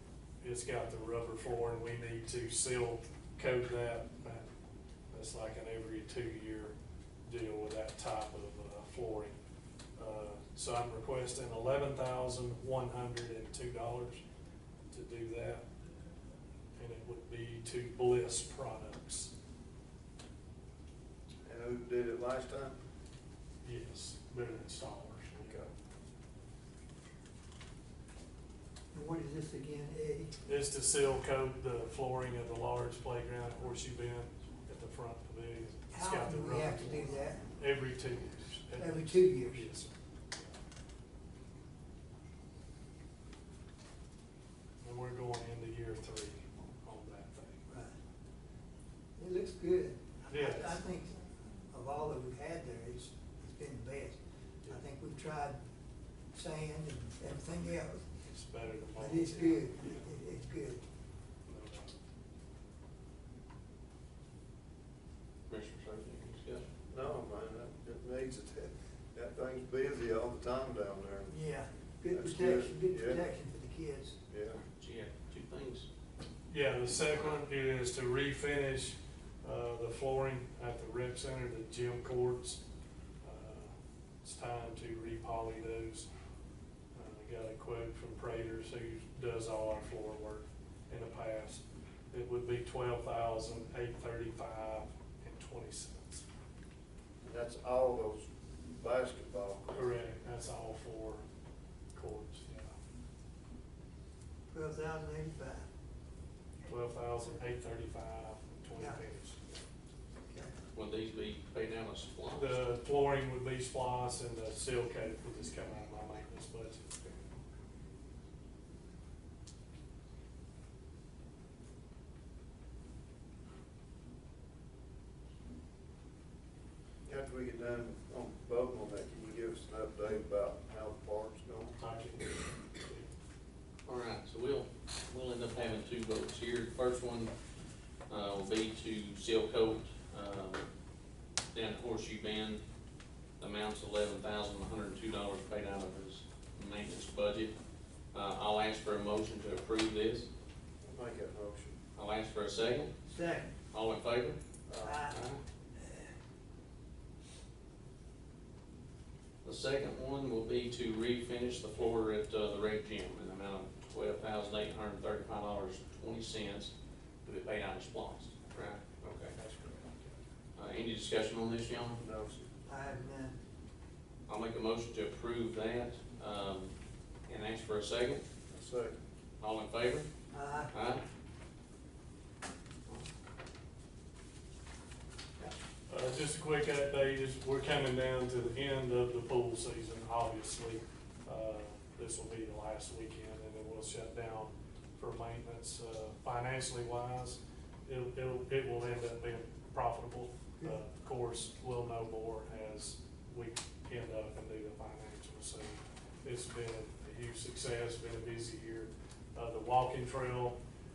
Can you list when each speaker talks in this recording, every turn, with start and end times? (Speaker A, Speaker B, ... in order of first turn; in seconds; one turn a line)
Speaker A: 0.4-4.5
Speaker A: 5.1-6.8
Speaker A: 7.3-9.4
Speaker A: 10.0-14.2
Speaker A: 14.9-15.7
Speaker A: 16.8-19.3
Speaker B: 21.4-22.8
Speaker A: 23.6-25.7
Speaker C: 28.9-30.4
Speaker A: 30.4-40.5
Speaker C: 35.9-37.5
Speaker C: 38.8-39.6
Speaker A: 44.8-47.6
Speaker C: 47.7-48.0
Speaker C: 49.2-55.6
Speaker A: 50.3-50.8
Speaker C: 56.3-58.0
Speaker A: 58.2-60.1
Speaker C: 59.0-60.8
Speaker A: 61.5-62.0
Speaker D: 65.5-66.7
Speaker B: 66.9-71.3
Speaker C: 71.3-74.2
Speaker B: 72.1-73.2
Speaker B: 74.3-74.6
Speaker D: 74.8-75.9
Speaker A: 76.5-82.6
Speaker A: 83.2-86.1
Speaker A: 86.9-96.2
Speaker B: 97.2-99.9
Speaker A: 99.7-101.2
Speaker A: 101.9-102.7
Speaker C: 104.5-105.7
Speaker A: 106.6-109.6
Speaker C: 110.3-110.6
Speaker D: 110.7-112.6
Speaker A: 112.3-117.1
Speaker B: 127.1-131.8
Speaker A: 131.8-133.1
Speaker D: 133.8-137.3
Speaker D: 138.1-140.7
Speaker D: 141.5-142.6
Speaker D: 143.4-147.6
Speaker D: 148.1-150.3
Speaker B: 150.8-151.8
Speaker D: 151.9-152.9
Speaker C: 153.1-153.5
Speaker D: 153.7-154.4
Speaker B: 154.7-155.1
Speaker C: 154.8-155.2
Speaker D: 155.1-155.4
Speaker D: 159.4-169.4
Speaker A: 169.3-170.2
Speaker D: 170.6-172.0
Speaker B: 172.0-172.5
Speaker C: 172.7-173.4
Speaker D: 174.3-176.8
Speaker D: 177.3-178.2
Speaker B: 178.5-179.0
Speaker D: 179.4-180.1
Speaker C: 180.3-180.7
Speaker D: 180.7-181.0
Speaker A: 185.9-210.6